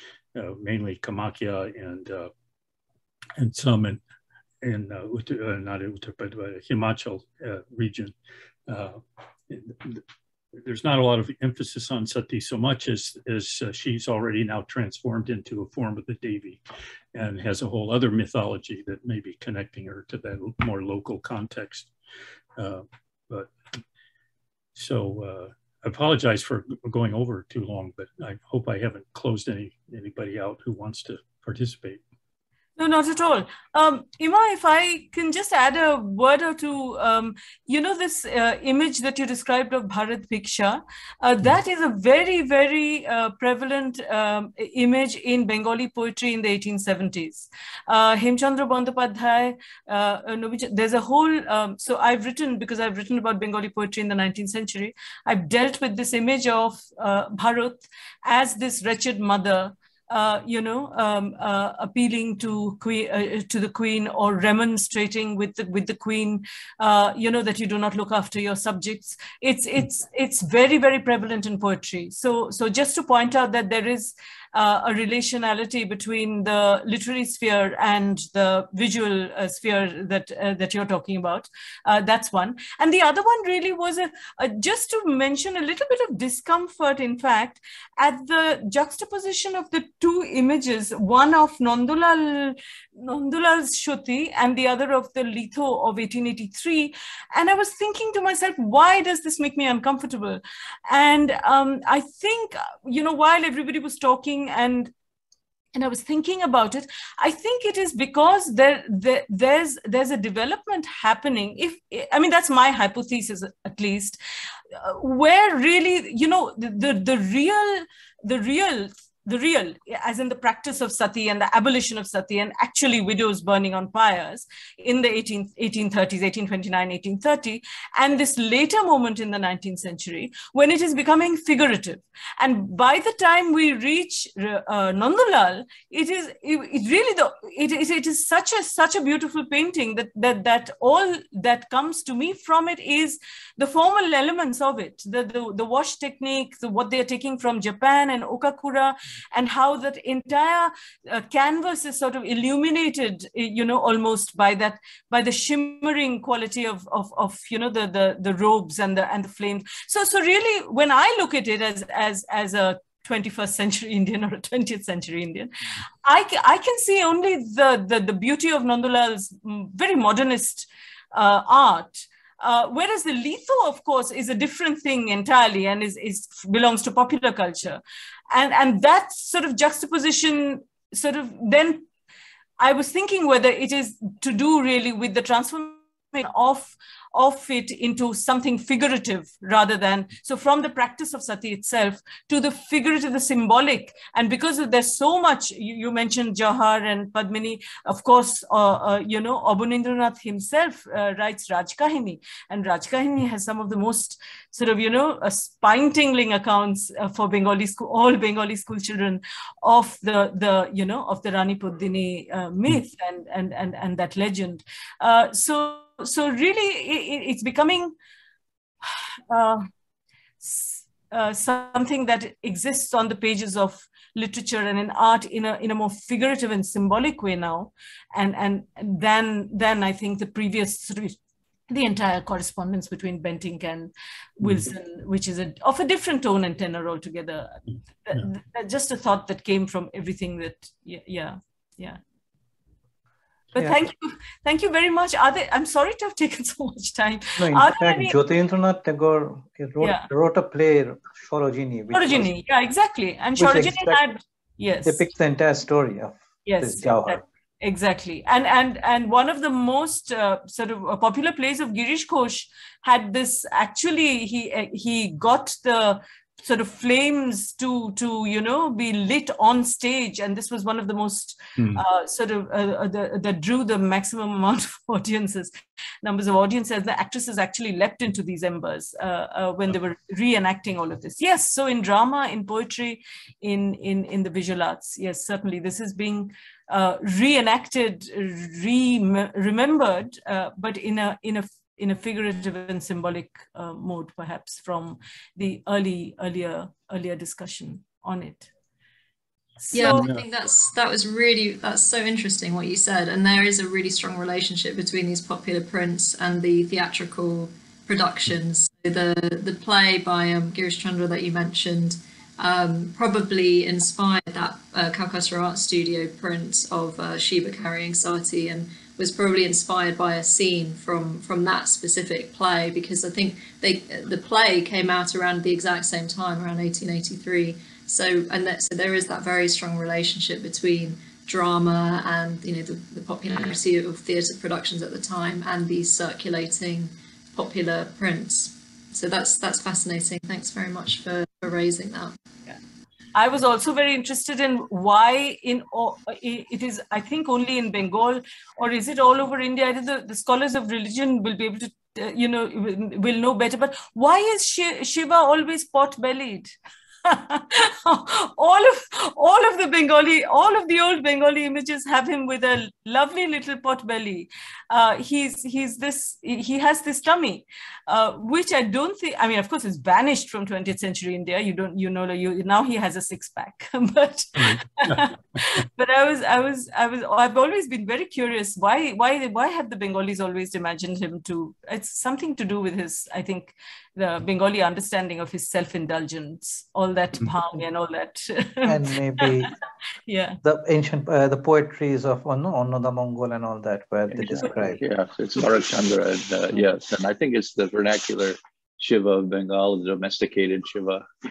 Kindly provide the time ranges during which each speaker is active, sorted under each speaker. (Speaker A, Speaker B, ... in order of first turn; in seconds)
Speaker A: 0.3-2.3, 3.4-4.0, 4.6-8.1, 8.7-10.0, 10.6-16.6, 17.1-21.9, 22.6-23.5, 24.7-32.0, 234.4-234.7, 271.6-271.8, 299.8-300.2, 374.4-375.1
Speaker B: 32.8-104.9, 105.7-114.2, 114.8-181.9, 182.6-217.9, 218.8-219.7, 220.4-231.2, 231.7-242.0, 243.5-248.2, 249.8-250.1, 251.9-255.1, 256.4-275.5, 276.0-298.5, 299.6-300.1, 343.1-356.5, 357.1-389.4, 390.1-390.4
Speaker C: 247.4-252.3, 253.4-254.0, 254.8-257.2, 388.6-389.5, 390.4-394.8
Speaker D: 299.7-342.1
Speaker E: 394.1-401.0